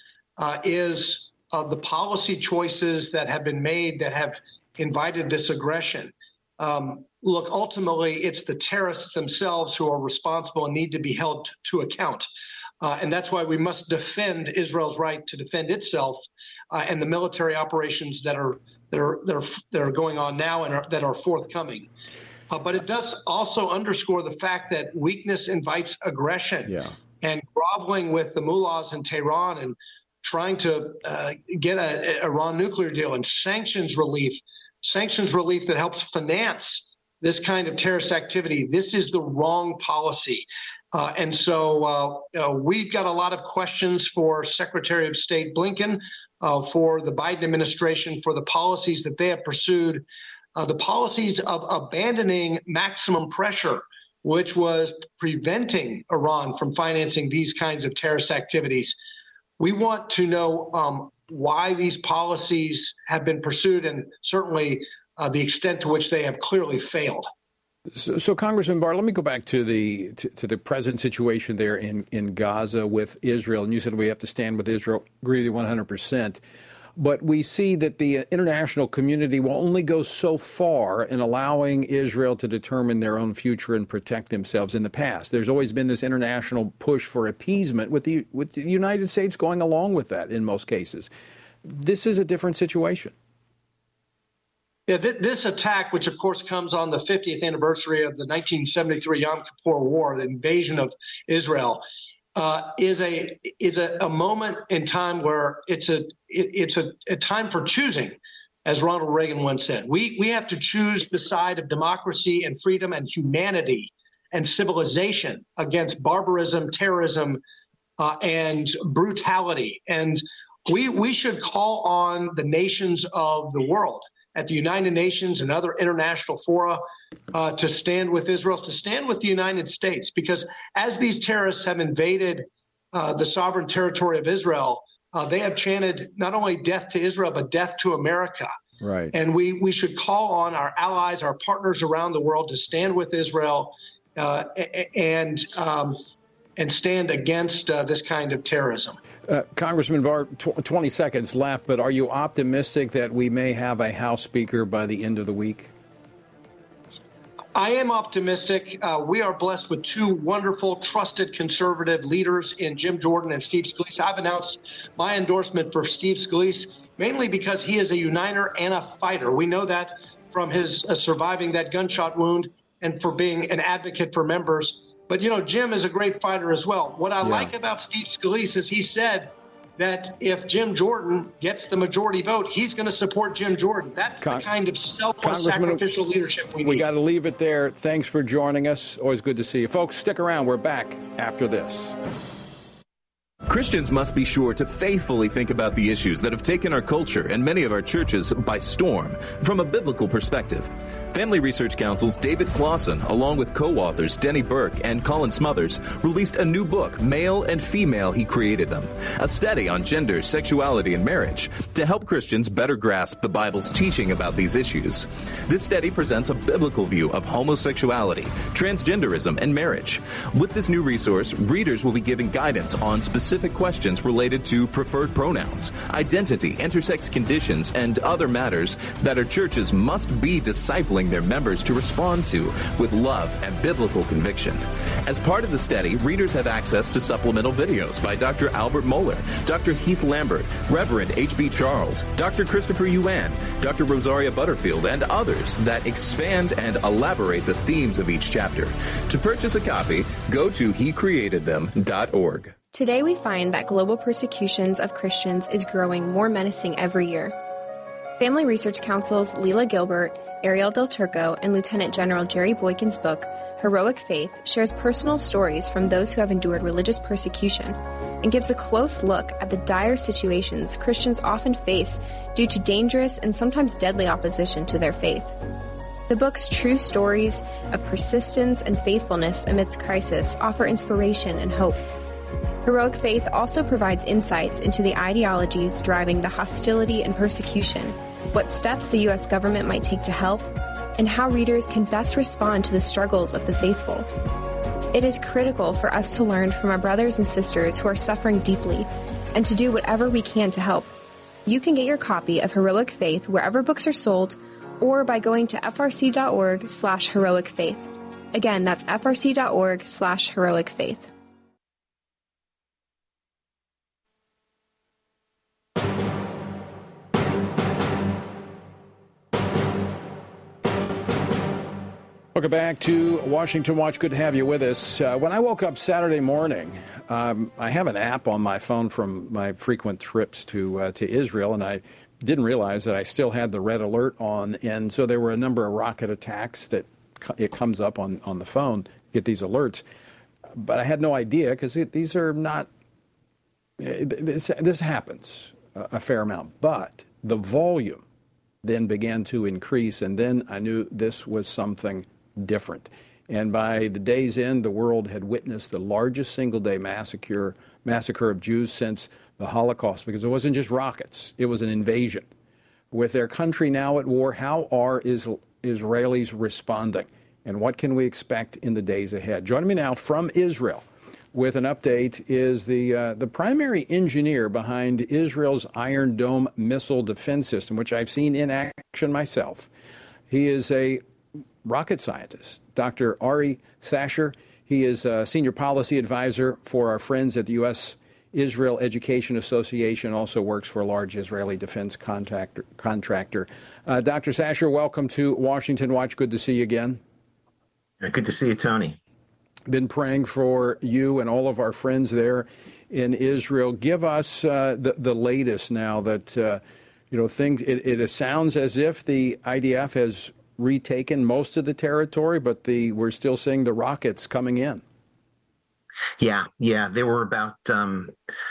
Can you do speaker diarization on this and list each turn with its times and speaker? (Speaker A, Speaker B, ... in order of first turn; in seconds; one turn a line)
Speaker A: 0.4-12.3
Speaker A: 12.8-21.9
Speaker A: 22.5-59.0
Speaker B: 26.6-26.9
Speaker A: 59.6-67.3
Speaker B: 67.9-76.4
Speaker B: 77.0-91.1
Speaker B: 91.6-93.1
Speaker A: 94.9-101.8
Speaker A: 102.3-117.4
Speaker A: 118.0-126.8
Speaker A: 127.3-138.5
Speaker B: 138.8-139.1
Speaker A: 139.1-146.0
Speaker A: 146.6-149.0
Speaker B: 149.2-155.7
Speaker A: 157.6-186.8
Speaker B: 177.2-177.5
Speaker B: 184.2-184.5
Speaker B: 185.2-185.8
Speaker B: 186.6-192.0
Speaker C: 193.5-252.5
Speaker D: 252.7-257.4
Speaker D: 258.2-275.3
Speaker D: 276.1-281.8
Speaker D: 282.6-294.1
Speaker D: 294.9-300.9
Speaker D: 301.4-311.1
Speaker B: 322.3-339.8
Speaker B: 340.6-342.7
Speaker B: 343.8-348.0
Speaker B: 348.6-362.3
Speaker B: 362.9-379.7
Speaker B: 380.3-381.0
Speaker B: 381.6-397.0
Speaker E: 398.0-399.0
Speaker B: 399.7-414.8
Speaker E: 416.2-418.1